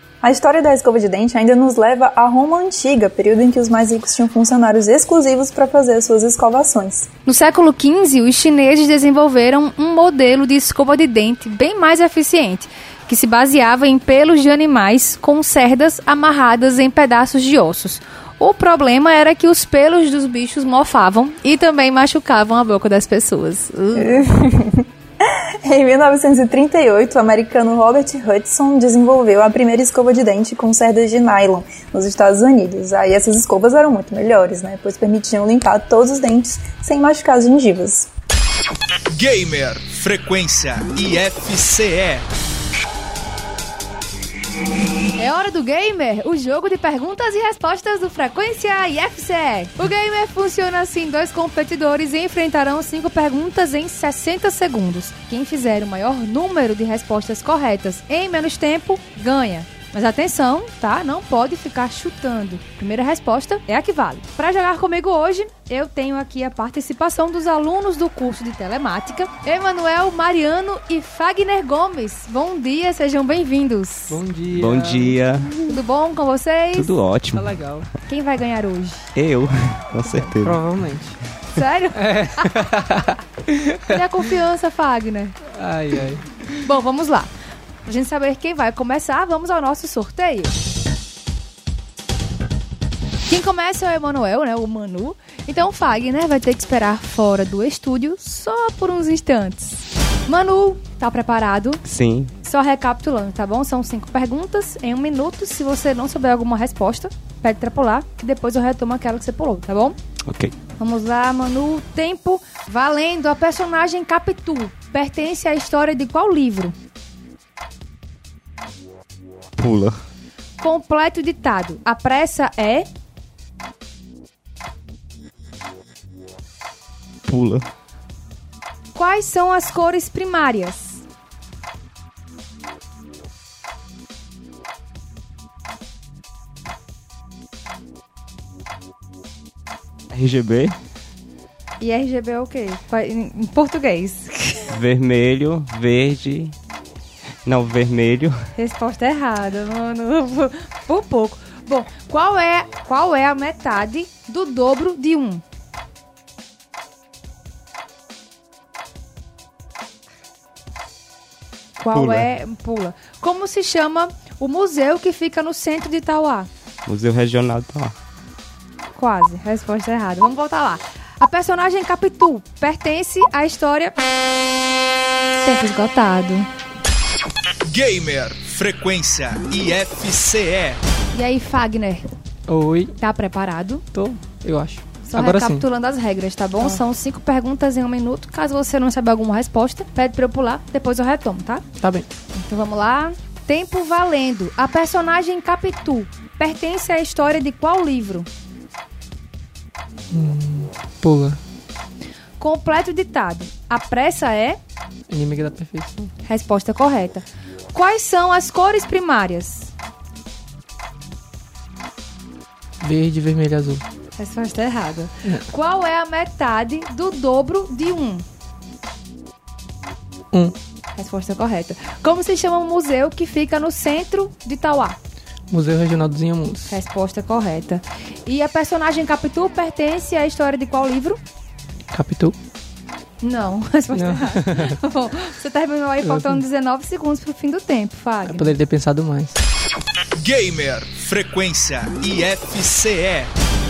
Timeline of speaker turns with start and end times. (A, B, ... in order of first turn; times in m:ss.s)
0:00.2-0:07.1 A
0:07.3-0:24.2 B
0:24.0-0:24.9 A
0:25.6-0:38.1 A
0:39.1-0:42.2 C
0:45.2-1:14.2 B
1:14.1-1:15.2 D
1:14.5-1:15.7 E
1:15.7-1:16.9 B
1:16.8-1:17.8 E
1:17.3-1:17.9 D
1:18.1-1:19.1 B
1:19.2-1:20.8 E
1:20.1-1:21.2 D
1:21.5-1:22.6 B
1:22.0-1:23.1 D
1:23.9-1:25.4 B
1:25.5-1:26.3 D
1:26.6-1:27.3 B
1:27.9-1:30.5 B
1:33.3-1:41.8 B
1:41.8-1:42.3 E
1:42.4-1:50.0 B
1:50.3-1:50.5 E
1:50.8-1:56.7 B
1:59.6-2:00.0 E
2:00.6-2:02.9 B
2:07.3-2:07.7 E
2:09.0-2:11.0 B
2:20.1-2:20.8 E
2:21.8-2:24.6 B
2:24.7-2:26.6 E
2:27.4-2:28.5 E
2:28.6-2:35.4 B
2:41.8-2:46.5 B
2:41.9-2:42.3 E
2:46.9-2:48.0 E
2:49.0-2:54.0 B
2:55.4-2:56.5 B
2:57.7-3:00.8 C
3:01.1-3:02.1 B
3:02.5-3:02.9 D
3:03.0-3:03.8 B
3:03.9-3:05.7 D
3:05.1-3:11.6 B
3:11.8-3:12.1 D
3:12.3-3:18.3 B
3:20.1-3:21.4 D
3:22.4-3:24.6 B
3:25.1-3:26.1 D
3:26.2-3:29.7 B
3:32.8-3:33.8 D
3:34.2-3:38.2 B
3:41.0-3:45.0 B
3:45.5-3:46.8 D
3:46.7-3:51.2 B
3:51.9-3:52.4 D
3:53.2-3:58.6 B
3:53.9-3:54.8 D
3:56.0-3:56.4 D
3:58.2-3:59.4 D
4:00.2-4:03.3 C